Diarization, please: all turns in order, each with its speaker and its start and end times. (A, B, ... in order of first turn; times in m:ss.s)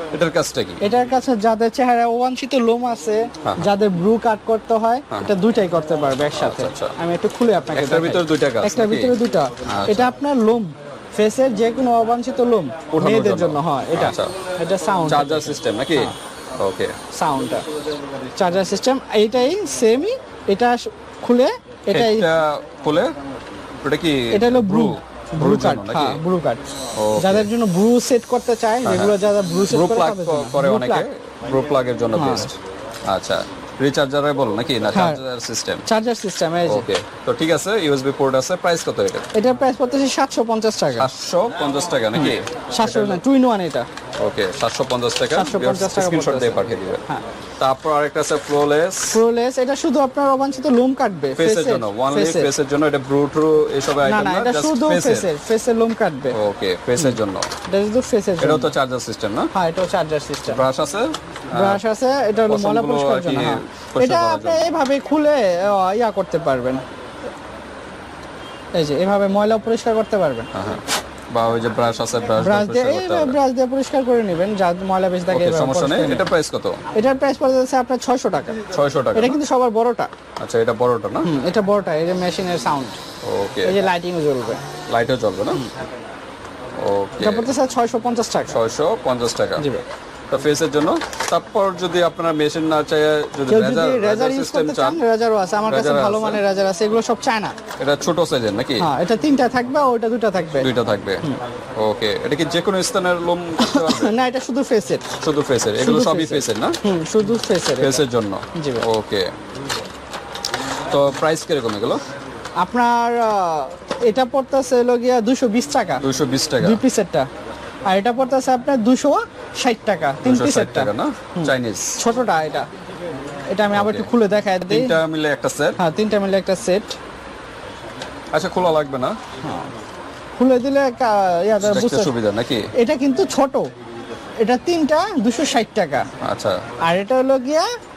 0:00.1-0:00.8 A
0:00.8-0:16.1 B
0:03.4-0:03.7 A
0:06.3-0:06.9 A
0:07.7-0:10.1 A
0:12.9-0:14.3 A
0:15.0-0:17.0 A
0:17.1-0:17.6 B
0:18.4-0:22.3 B
0:21.9-0:23.1 A
0:23.8-0:26.2 A
0:24.3-0:26.6 B
0:26.9-0:27.5 A
0:27.2-0:31.1 B
0:28.8-0:29.2 A
0:29.7-0:32.5 A
0:32.1-0:32.5 B
0:33.1-0:35.8 A
0:34.9-0:35.2 B
0:35.8-0:36.9 B
0:36.6-0:39.3 A
0:39.3-0:41.1 B
0:41.0-0:43.2 A
0:42.1-0:43.9 B
0:44.2-0:47.0 A
0:45.3-0:47.2 B
0:47.6-0:49.2 A
0:49.1-0:52.5 B
0:51.4-0:55.3 A
0:54.0-0:56.4 B
0:56.3-0:57.5 A
0:57.0-0:58.7 B
0:58.4-0:59.5 A
0:59.5-1:00.6 B
1:00.5-1:01.8 A
1:01.5-1:06.8 B
1:02.5-1:04.7 A
1:08.7-1:10.5 B
1:10.5-1:13.4 A
1:12.4-1:16.3 B
1:15.3-1:16.8 A
1:16.9-1:18.6 B
1:18.7-1:19.4 A
1:19.1-1:20.1 B
1:20.4-1:21.3 A
1:21.2-1:23.0 B
1:23.2-1:23.8 A
1:23.6-1:24.6 B
1:24.9-1:25.6 A
1:26.8-1:27.5 A
1:27.2-1:28.6 B
1:28.5-1:29.7 A
1:29.6-1:29.8 B
1:30.3-1:35.0 A
1:33.5-1:37.6 B
1:35.7-1:36.4 A
1:37.8-1:38.9 A
1:38.8-1:40.7 B
1:40.6-1:41.2 A
1:41.8-1:44.1 A
1:43.6-1:45.1 B
1:45.2-1:46.8 A
1:45.8-1:48.8 B
1:47.8-1:49.3 A
1:50.9-1:52.0 A
1:52.6-1:56.0 B
1:56.0-1:56.8 A
1:56.6-1:57.3 B
1:57.9-2:02.7 B
2:00.2-2:02.0 A
2:03.5-2:05.0 B
2:03.7-2:04.1 A
2:04.7-2:05.8 A
2:05.8-2:07.0 B
2:08.3-2:09.2 A
2:09.4-2:09.7 B
2:10.4-2:12.1 B
2:11.6-2:12.7 A
2:12.8-2:13.7 B
2:14.4-2:16.1 B
2:16.2-2:16.6 A
2:16.8-2:17.7 B